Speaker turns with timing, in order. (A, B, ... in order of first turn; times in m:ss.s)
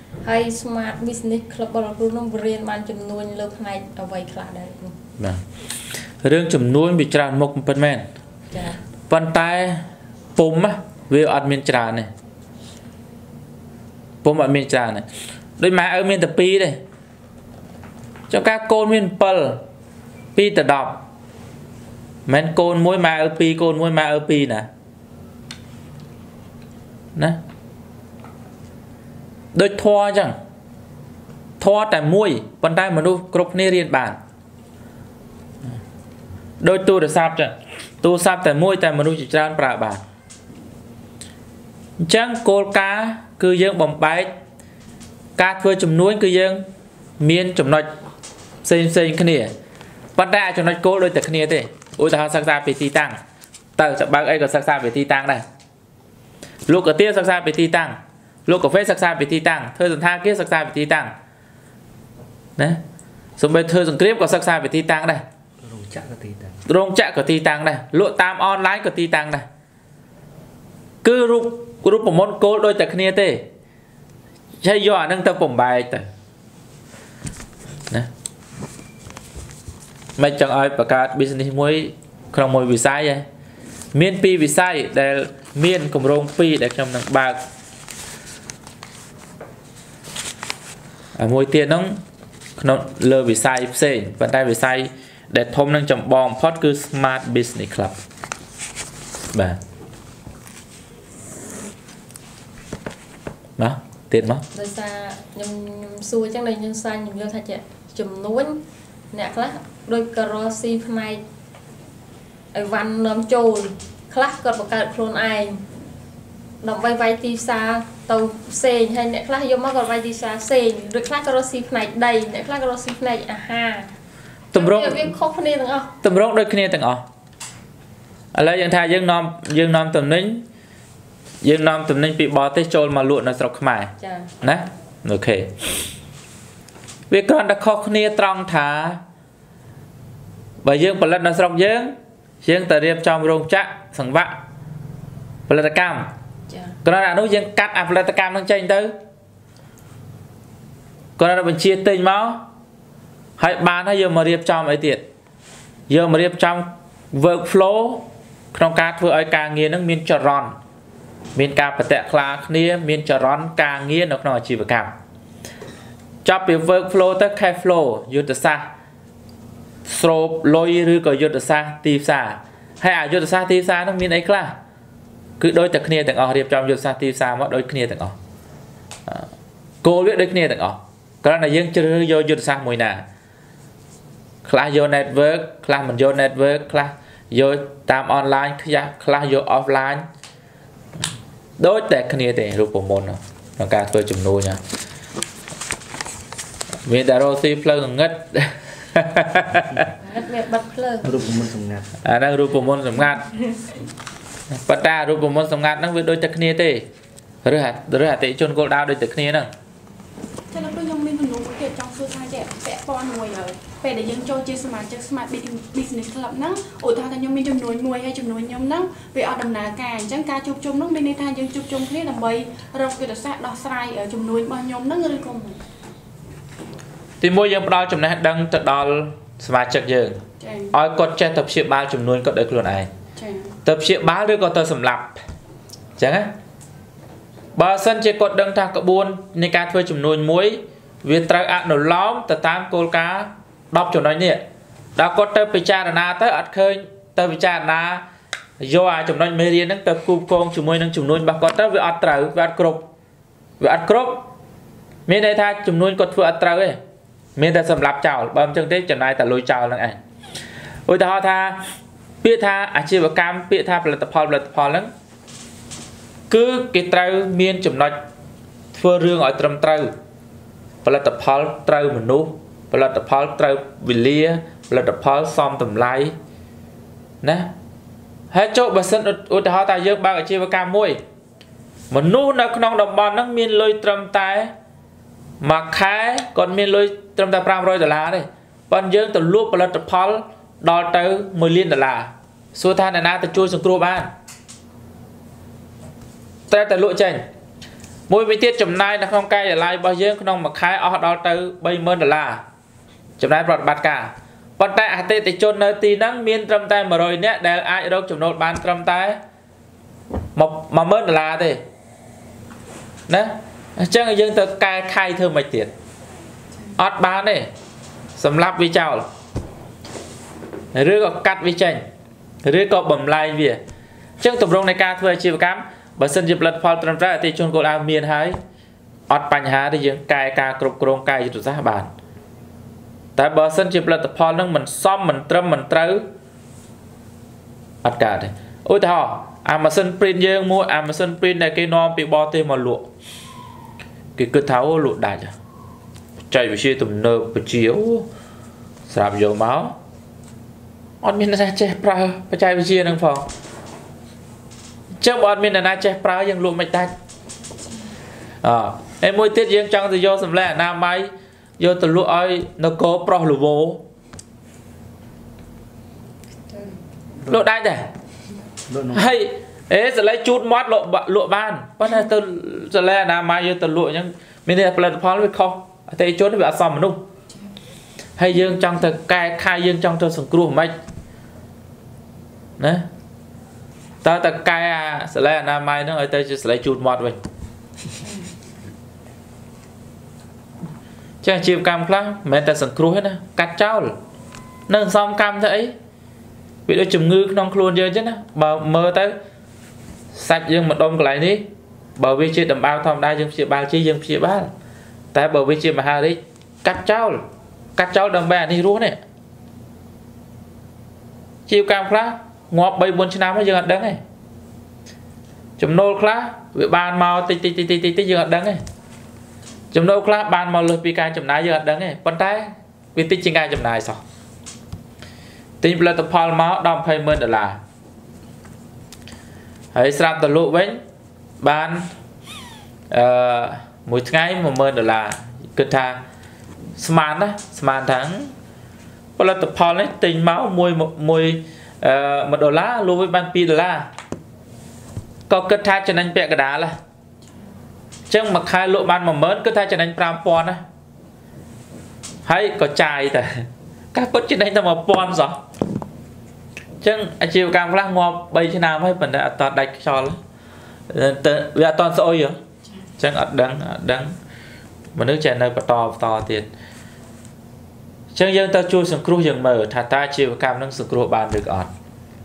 0:00.2-0:04.9 A
0:06.2-0:08.1 B
0:08.5-0:08.8 A
0:09.1-0:09.8 B
0:10.4-0:12.1 B
0:14.2-0:15.0 B
0:15.6-0:16.8 B
0:18.3-0:19.6 B
0:20.4-0:21.0 B
0:22.3-0:24.7 B
0:29.5-0:30.4 B
0:31.6-0:34.2 B
0:36.6-0:40.0 B
0:42.0-0:44.3 B
0:45.4-0:46.6 B
0:47.2-0:47.9 B
0:48.6-0:49.5 B
0:50.2-0:53.2 B
0:53.8-0:55.4 B
0:56.6-1:01.1 B
1:03.4-1:05.2 B
1:05.6-1:06.6 C
1:06.7-1:09.4 B
1:11.0-1:13.4 B
1:14.6-1:16.1 B
1:20.2-1:23.2 B
1:23.9-1:27.4 B
1:31.2-1:32.0 B
1:32.6-1:38.0 B
1:39.3-1:39.6 B
1:43.6-1:44.4 B
1:44.5-1:48.6 A
1:49.1-1:51.2 A
1:52.5-1:55.6 A
1:56.6-2:03.9 A
2:04.5-2:05.1 B
2:04.5-2:05.9 A
2:06.0-2:07.0 B
2:08.3-2:10.4 B
2:11.4-2:15.5 B
2:14.0-2:14.3 A
2:17.1-2:19.0 B
2:20.6-2:24.4 B
2:25.5-2:26.1 B
2:26.5-2:26.8 A
2:26.8-2:28.9 B
2:31.2-2:32.4 B
2:33.4-2:35.0 B
2:35.9-2:40.6 B
2:41.3-2:44.9 B
2:46.2-2:48.7 B
2:49.8-2:54.6 B
2:55.4-2:58.2 B
2:59.8-3:03.0 B
3:04.4-3:10.0 B
3:11.6-3:14.6 B
3:16.8-3:19.8 B
3:19.9-3:21.1 A
3:21.0-3:21.9 C
3:22.0-3:23.3 B
3:24.5-3:26.9 B
3:27.4-3:29.5 B
3:30.5-3:45.6 D
3:47.2-3:50.2 B
3:50.4-3:50.7 D
3:50.7-3:52.9 B
3:53.2-3:53.6 D
3:53.6-3:55.2 B
3:56.0-3:56.3 B
3:57.6-4:04.4 B
4:05.0-4:08.0 B
4:08.6-4:12.9 B
4:13.6-4:14.2 B
4:15.1-4:16.8 B
4:17.4-4:20.0 B
4:20.9-4:21.6 B
4:22.2-4:24.9 B
4:26.3-4:28.0 B
4:28.7-4:29.9 B
4:30.8-4:36.1 B
4:37.2-4:37.5 B
4:38.3-4:41.0 B
4:41.9-4:44.5 B
4:45.4-4:54.1 B
4:56.5-4:57.2 B
4:58.1-5:02.4 B
5:03.2-5:09.2 B
5:10.4-5:11.6 B
5:13.1-5:15.7 B
5:16.8-5:17.5 B
5:18.2-5:19.1 B
5:20.7-5:21.8 B
5:22.4-5:23.6 B
5:24.2-5:28.4 B
5:29.1-5:31.9 B
5:33.2-5:36.0 B
5:37.8-5:42.9 B
5:44.2-5:45.3 B
5:46.3-5:48.1 B
5:48.9-5:49.8 B
5:51.0-5:53.3 B
5:55.0-5:56.9 B
5:58.4-6:03.8 B
6:07.2-6:07.5 C
6:07.3-6:07.9 B
6:08.7-6:09.1 C
6:08.9-6:17.0 B
6:18.2-6:20.8 B
6:22.6-6:22.9 B
6:24.0-6:27.2 B
6:31.2-6:34.0 B
6:34.7-6:35.7 B
6:36.7-6:39.1 B
6:40.1-6:41.4 B
6:42.0-6:44.5 B
6:45.1-6:47.2 B
6:47.8-6:49.0 B
6:51.5-6:54.0 B
6:55.6-6:58.6 B
6:59.7-7:04.0 B
7:05.6-7:07.6 B
7:09.7-7:10.8 B
7:11.4-7:11.9 B
7:12.9-7:16.0 B
7:16.8-7:18.3 B
7:19.2-7:23.9 B
7:25.3-7:26.7 B
7:28.1-7:30.6 B
7:32.2-7:35.4 B
7:36.8-7:40.2 B
7:40.9-7:42.4 B
7:43.0-7:44.1 B
7:44.9-7:46.5 B
7:48.1-7:51.7 B